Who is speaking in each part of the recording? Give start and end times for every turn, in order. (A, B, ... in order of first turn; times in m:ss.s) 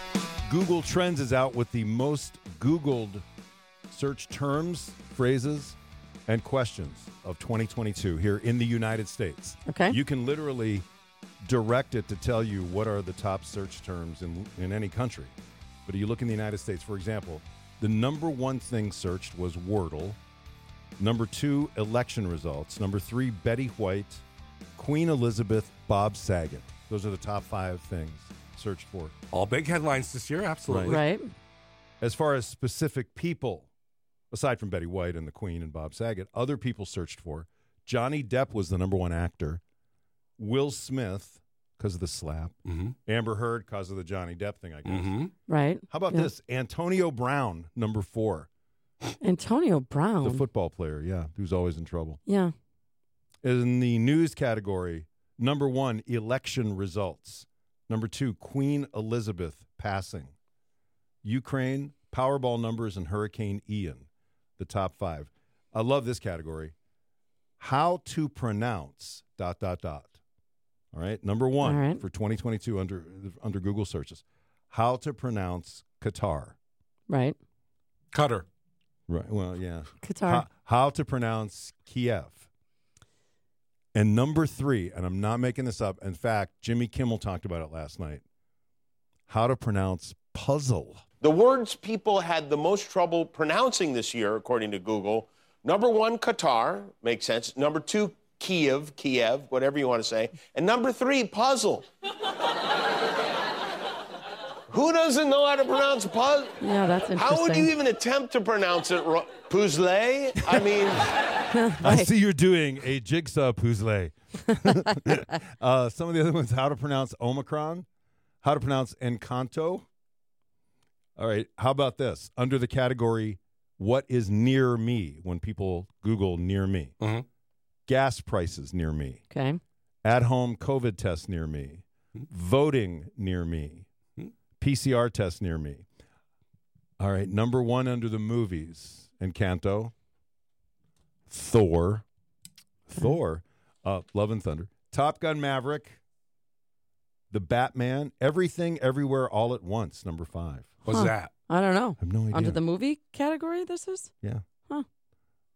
0:00.4-0:03.2 A
0:03.9-0:10.8 A
0:09.6-0:10.0 B
0:11.4-0:15.3 A
0:15.8-0:20.2 A
0:21.0-0:24.2 A
0:24.8-0:29.1 A
0:29.3-0:31.0 C
0:30.7-0:31.0 A
0:30.9-0:31.3 B
0:32.0-0:33.7 A
0:34.3-0:39.6 A
0:40.4-0:42.5 A
0:43.0-0:45.1 A
0:44.8-0:45.3 C
0:45.5-0:46.3 B
0:45.9-0:48.5 A
0:49.2-0:50.4 B
0:50.2-0:52.2 A
0:52.2-0:52.5 B
0:53.4-1:00.3 A
1:01.2-1:04.1 A
1:04.6-1:06.7 A
1:07.6-1:10.2 A
1:10.9-1:16.6 A
1:11.6-1:12.0 B
1:17.1-1:17.4 B
1:18.1-1:18.4 C
1:19.1-1:22.5 A
1:20.0-1:20.4 B
1:23.9-1:28.2 A
1:29.3-1:31.0 A
1:31.2-1:41.8 D
1:44.7-1:46.5 D
1:46.6-1:47.7 B
1:47.2-1:51.0 D
1:51.5-1:52.1 B
1:51.8-1:57.9 A
1:58.4-1:59.8 A
2:01.2-2:06.9 A
2:07.9-2:09.2 A
2:09.3-2:09.6 B
2:10.0-2:13.9 A
2:14.6-2:15.8 A
2:17.0-2:19.9 A
2:21.3-2:22.0 A
2:22.9-2:26.0 A
2:27.3-2:30.8 A
2:30.8-2:31.3 C
2:30.9-2:34.1 B
2:32.0-2:32.6 A